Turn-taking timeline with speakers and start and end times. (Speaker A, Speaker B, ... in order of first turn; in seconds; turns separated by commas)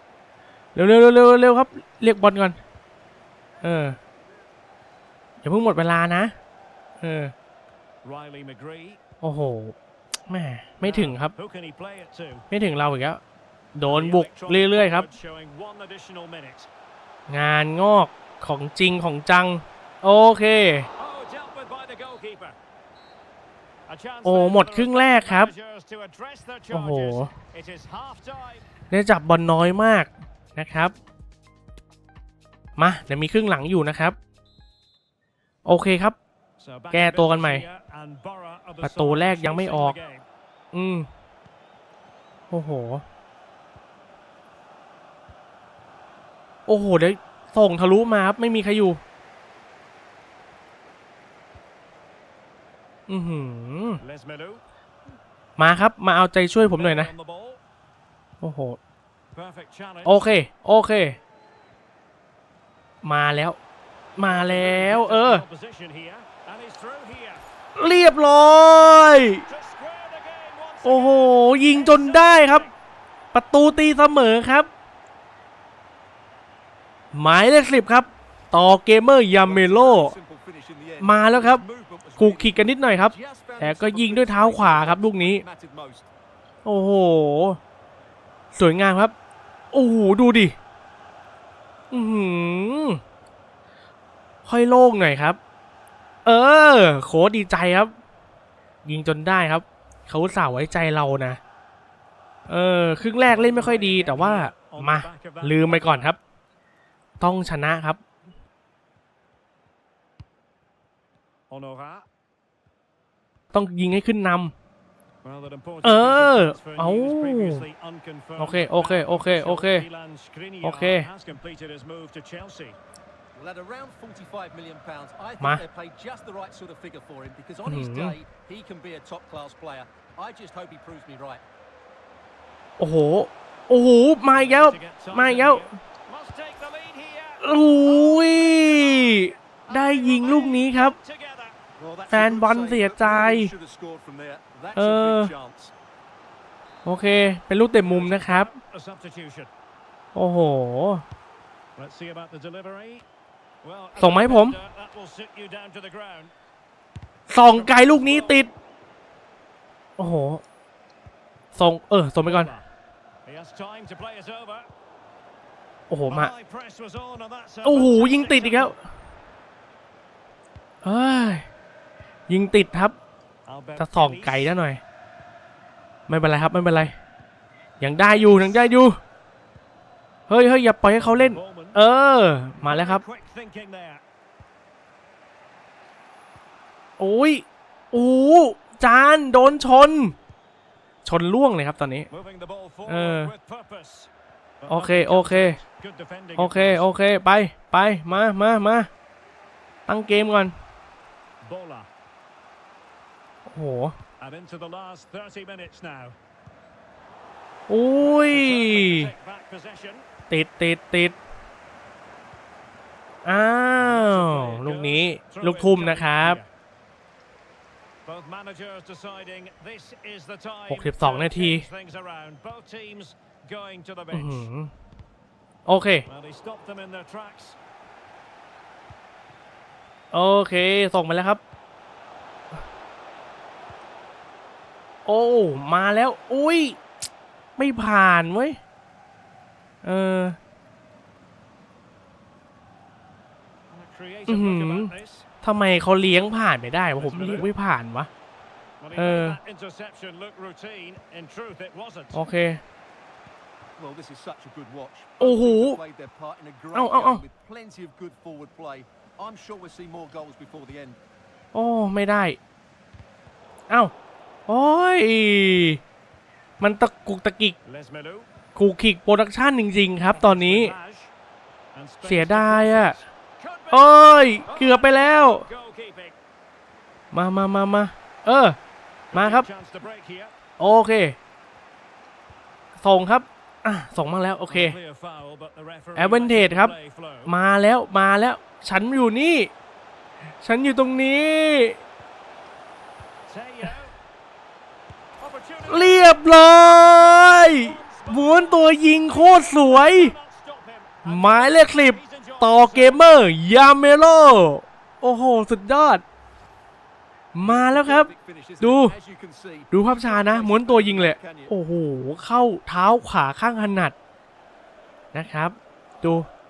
Speaker A: 0.7-2.6, Speaker A: 3.6-4.0, Speaker A: 5.4-6.3, Speaker A: 7.0-7.3, Speaker B: 8.0-9.0, Speaker A: 9.2-9.8, Speaker A: 10.3-11.3, Speaker B: 10.8-12.4, Speaker A: 12.5-13.2, Speaker A: 13.8-15.1, Speaker B: 13.8-16.7, Speaker A: 17.3-20.9, Speaker B: 21.0-22.6, Speaker B: 23.9-28.7, Speaker A: 24.2-25.5, Speaker A: 26.7-27.3, Speaker A: 28.9-30.9, Speaker A: 32.8-34.2, Speaker A: 35.6-36.2, Speaker B: 36.6-40.2, Speaker A: 36.9-37.6, Speaker A: 38.8-40.0, Speaker A: 40.7-41.1, Speaker A: 42.5-43.0, Speaker A: 46.7-49.0, Speaker A: 53.1-54.0, Speaker B: 54.0-54.6, Speaker A: 55.6-57.1, Speaker B: 56.6-57.6, Speaker A: 58.4-58.8, Speaker B: 59.3-60.2, Speaker A: 60.0-61.2, Speaker A: 63.0-63.6, Speaker A: 64.2-65.4, Speaker B: 64.2-67.4, Speaker A: 67.8-69.4, Speaker B: 69.4-72.7, Speaker A: 70.8-72.7, Speaker A: 73.3-74.7, Speaker A: 77.1-80.1, Speaker C: 79.3-86.1, Speaker A: 81.0-81.6, Speaker A: 82.2-85.4, Speaker A: 86.6-87.6, Speaker A: 88.5-89.1, Speaker A: 89.7-90.5, Speaker A: 91.9-93.0, Speaker A: 94.5-95.4, Speaker A: 96.2-97.9, Speaker A: 98.8-101.4, Speaker A: 102.5-106.2, Speaker B: 103.2-106.1, Speaker A: 107.2-108.0, Speaker B: 111.5-112.0, Speaker A: 113.5-114.5, Speaker B: 115.2-122.8, Speaker A: 115.8-117.7, Speaker A: 118.4-119.8, Speaker A: 120.6-121.1, Speaker C: 123.3-131.4, Speaker A: 127.7-128.1, Speaker A: 132.8-135.7, Speaker B: 134.3-141.6, Speaker A: 137.4-140.9, Speaker C: 141.8-145.7, Speaker A: 142.1-143.5, Speaker A: 144.7-145.3, Speaker A: 146.8-148.5, Speaker B: 147.8-149.5, Speaker A: 150.1-151.0, Speaker B: 151.8-153.0, Speaker B: 153.6-156.3, Speaker A: 154.0-154.6, Speaker A: 157.3-158.5, Speaker B: 157.5-158.4, Speaker A: 160.0-160.4, Speaker A: 161.5-162.5, Speaker B: 162.2-162.7, Speaker B: 163.2-164.7, Speaker A: 165.9-166.3, Speaker B: 166.1-168.8, Speaker A: 167.6-168.8, Speaker A: 170.8-171.4, Speaker A: 172.3-172.9, Speaker B: 173.4-174.6, Speaker A: 173.8-174.8, Speaker A: 176.1-176.9, Speaker A: 177.8-179.0, Speaker B: 178.0-178.7, Speaker A: 180.3-183.0, Speaker B: 180.9-181.8, Speaker B: 182.6-184.0, Speaker A: 187.0-190.2, Speaker A: 191.0-192.1, Speaker B: 192.1-194.1, Speaker A: 192.9-193.3, Speaker B: 194.6-196.9, Speaker A: 194.7-195.6, Speaker A: 196.4-198.9, Speaker A: 199.9-200.5, Speaker B: 201.4-201.9, Speaker A: 203.5-204.0, Speaker B: 204.2-206.2, Speaker A: 207.7-209.1, Speaker B: 208.0-210.1, Speaker A: 210.3-211.2, Speaker A: 213.2-216.4, Speaker B: 213.8-216.5, Speaker B: 218.0-224.5, Speaker A: 220.7-221.7, Speaker A: 224.1-224.7, Speaker A: 225.7-226.1, Speaker B: 226.1-227.6, Speaker A: 230.1-231.4, Speaker A: 235.1-236.8, Speaker A: 237.6-238.6, Speaker A: 239.8-240.4, Speaker B: 243.7-245.3, Speaker A: 244.3-248.1, Speaker B: 246.9-247.5, Speaker B: 248.8-252.2, Speaker A: 248.9-249.4, Speaker A: 252.1-252.6, Speaker C: 253.8-261.0, Speaker A: 255.2-255.8, Speaker A: 256.7-257.2, Speaker A: 261.5-262.4, Speaker A: 264.5-265.8, Speaker A: 266.6-267.6, Speaker B: 267.6-268.3, Speaker A: 268.6-270.7, Speaker B: 270.1-271.1, Speaker B: 271.7-276.1, Speaker A: 272.1-272.9, Speaker A: 273.7-275.4, Speaker A: 277.1-278.6, Speaker B: 279.1-280.3, Speaker A: 279.1-279.5, Speaker A: 280.6-281.2, Speaker A: 282.8-284.8, Speaker B: 284.5-287.3, Speaker A: 285.9-286.7, Speaker A: 287.3-289.5, Speaker A: 290.4-291.8, Speaker B: 293.3-293.9, Speaker B: 295.2-303.0, Speaker A: 295.7-300.1, Speaker A: 301.0-306.0, Speaker A: 307.3-308.9, Speaker C: 307.4-311.5, Speaker A: 309.7-313.9, Speaker A: 315.1-316.3